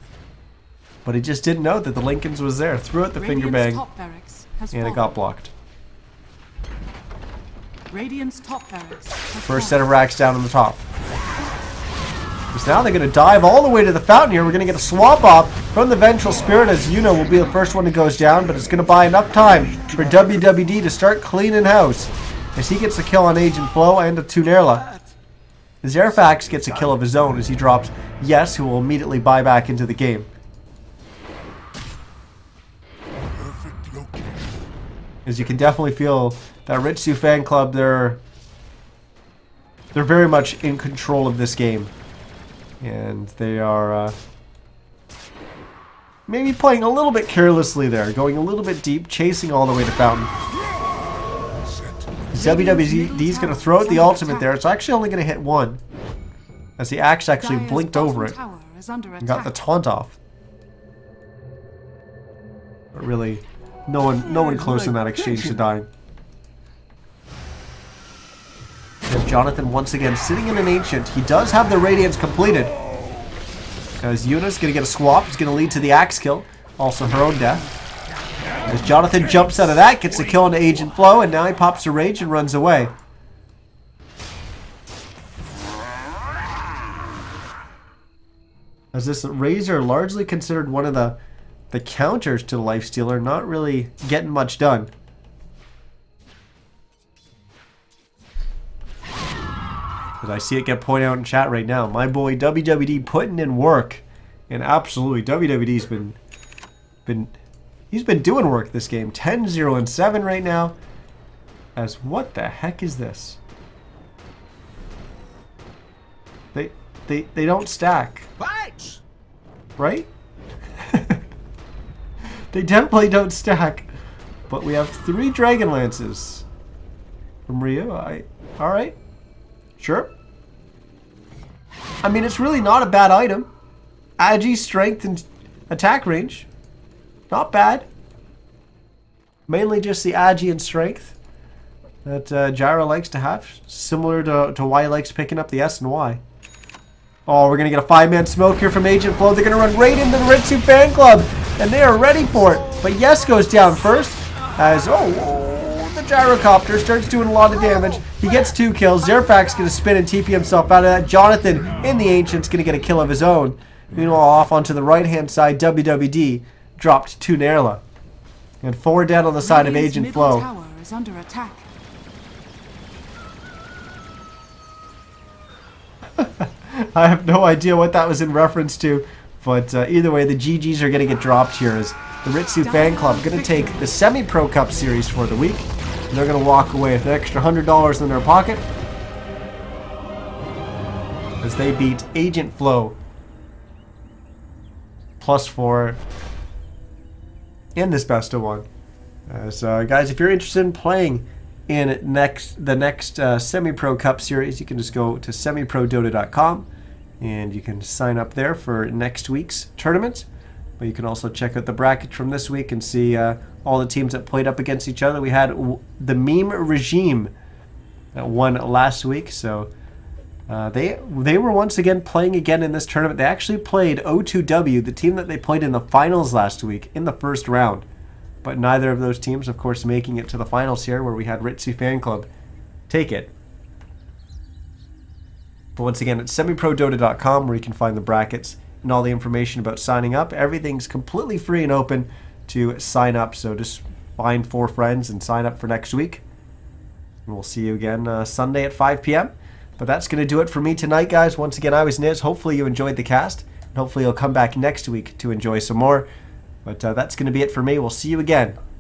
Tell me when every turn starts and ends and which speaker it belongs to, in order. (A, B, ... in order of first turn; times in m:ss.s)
0:01.0-0:03.8 A
0:03.1-0:05.2 B
0:04.7-0:05.5 A
0:07.9-0:09.9 B
0:09.4-0:10.9 A
0:12.5-0:24.9 A
0:25.8-0:30.3 A
0:33.2-0:34.7 C
0:35.3-0:38.2 A
0:39.9-0:41.9 A
0:42.8-0:44.2 A
0:46.3-0:50.3 A
0:51.5-0:52.3 C
0:52.3-0:55.8 A
0:52.3-0:54.6 B
0:56.8-0:58.4 A
0:57.4-0:59.6 B
0:59.2-1:00.2 A
1:02.9-1:05.9 A
1:04.7-1:05.1 C
1:09.1-1:12.7 A
1:14.0-1:17.7 A
1:18.7-1:22.9 A
1:28.9-1:31.2 A
1:31.7-1:34.9 A
1:40.2-1:46.2 A
1:47.1-1:47.4 A
1:47.9-1:50.8 A
1:51.8-1:53.4 A
1:56.5-1:58.3 A
1:58.4-1:59.0 C
1:59.8-2:00.1 A
2:00.8-2:01.2 A
2:02.5-2:03.9 A
2:04.5-2:06.5 A
2:07.5-2:09.0 A
2:09.8-2:10.1 A
2:12.0-2:13.5 A
2:14.2-2:16.5 A
2:17.3-2:17.9 A
2:19.5-2:21.2 A
2:22.0-2:26.2 A
2:27.3-2:47.8 A
2:48.6-2:50.5 A
2:49.4-2:51.7 B
2:56.2-3:08.7 A
3:02.6-3:04.0 B
3:11.4-3:13.0 A
3:15.2-3:16.0 A
3:17.8-3:18.7 A
3:19.3-3:26.7 A
3:27.2-3:30.3 A
3:30.8-3:37.3 A
3:38.1-3:39.7 A
3:40.5-3:47.9 A
3:48.4-3:52.3 A
3:52.9-3:53.3 A
3:55.8-4:06.2 A
4:07.3-4:16.1 A
4:16.6-4:18.6 A